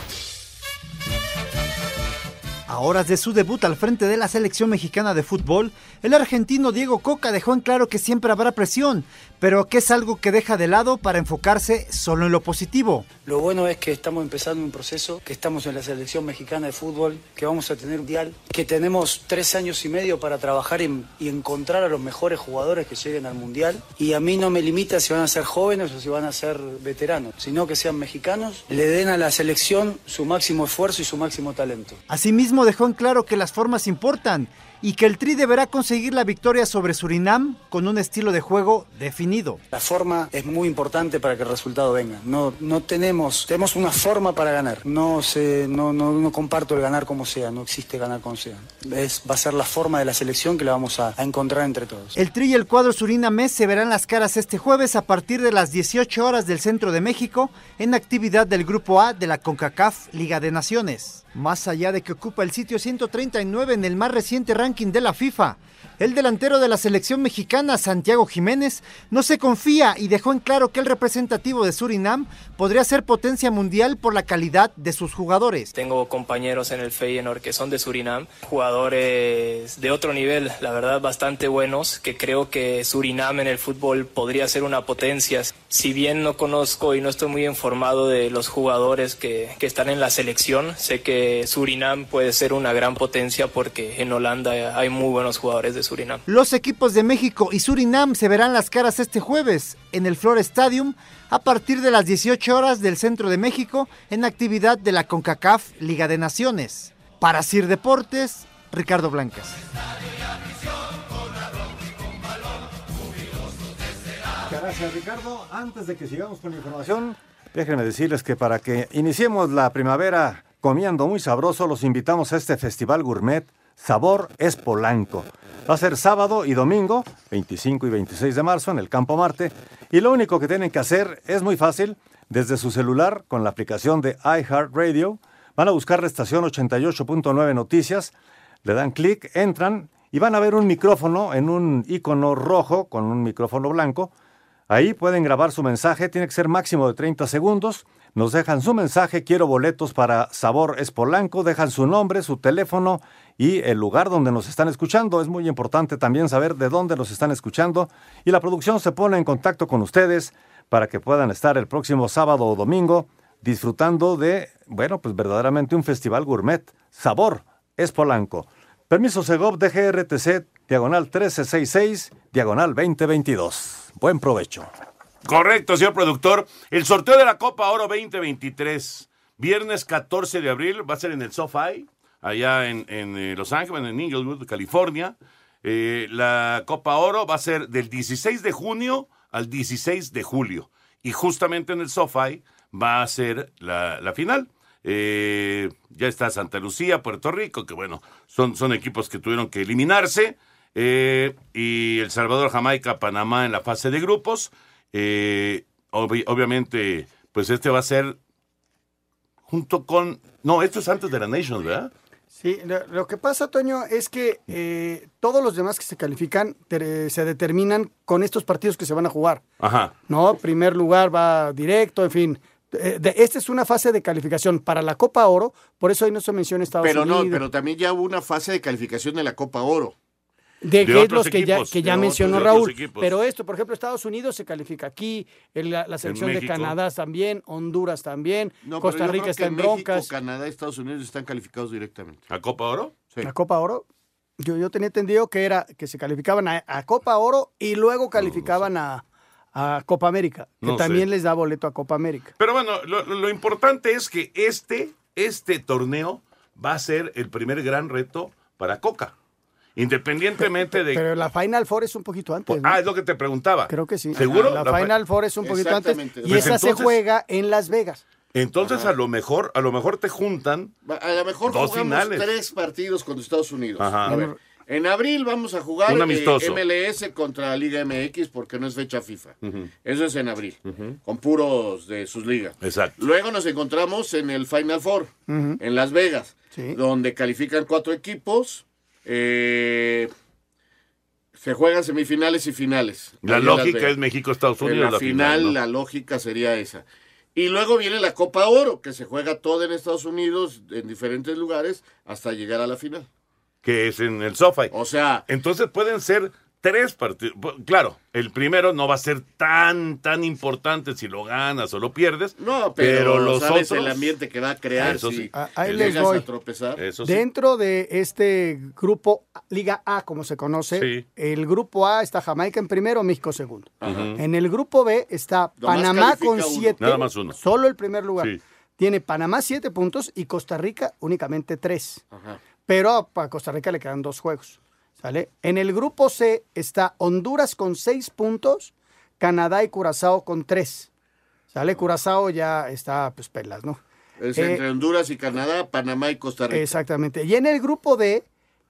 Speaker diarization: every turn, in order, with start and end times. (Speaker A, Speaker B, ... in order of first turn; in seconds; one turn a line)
Speaker A: 2.7-13.1
Speaker B: 13.2-32.0
Speaker A: 32.1-39.6
Speaker B: 39.7-52.1
Speaker A: 52.1-75.7
Speaker C: 75.7-96.2
Speaker A: 96.3-109.6
Speaker D: 114.5-138.1
Speaker D: 138.7-144.1
Speaker D: 144.7-174.7
Speaker E: 175.3-208.2
Speaker E: 209.5-211.9
Speaker F: 212.3-219.4
Speaker E: 219.6-219.9
Speaker F: 220.1-227.4
Speaker G: 226.8-229.9
Speaker F: 230.6-240.1
Speaker E: 230.8-233.1
Speaker G: 231.9-232.6
Speaker E: 236.0-236.8
Speaker G: 238.6-242.2
Speaker E: 242.3-242.9
Speaker F: 243.2-243.8
Speaker F: 244.4-252.3
Speaker E: 248.2-248.7
Speaker E: 250.6-251.1
Speaker E: 252.4-259.1
Speaker E: 259.8-261.0
Speaker F: 260.4-262.8
Speaker E: 262.5-265.0
Speaker F: 263.7-268.0
Speaker G: 264.2-264.6
Speaker G: 265.4-266.8
Speaker E: 266.3-266.9
Speaker E: 268.3-270.7
Speaker G: 268.6-268.9
Speaker G: 270.9-290.1
Speaker E: 271.5-272.3
Speaker E: 273.8-274.1
Speaker F: 274.1-274.4
Speaker E: 275.9-276.6
Speaker E: 279.4-279.7
Speaker E: 282.6-283.0
Speaker F: 285.3-285.6
Speaker F: 286.5-286.8
Speaker G: 291.4-293.9
Speaker E: 293.2-295.6
Speaker G: 294.6-303.1
Speaker E: 303.6-304.7
Speaker G: 304.7-305.2
Speaker E: 305.3-314.1
Speaker G: 312.4-316.8
Speaker E: 314.8-316.1
Speaker F: 315.3-316.3
Speaker E: 316.8-317.2
Speaker F: 317.0-332.0
Speaker E: 320.8-321.1
Speaker G: 323.8-324.1
Speaker E: 323.8-324.2
Speaker G: 325.6-326.8
Speaker E: 326.8-327.4
Speaker G: 332.1-332.4
Speaker F: 332.7-340.9
Speaker F: 341.5-343.8
Speaker G: 344.2-346.8
Speaker F: 344.4-344.6
Speaker F: 346.5-348.3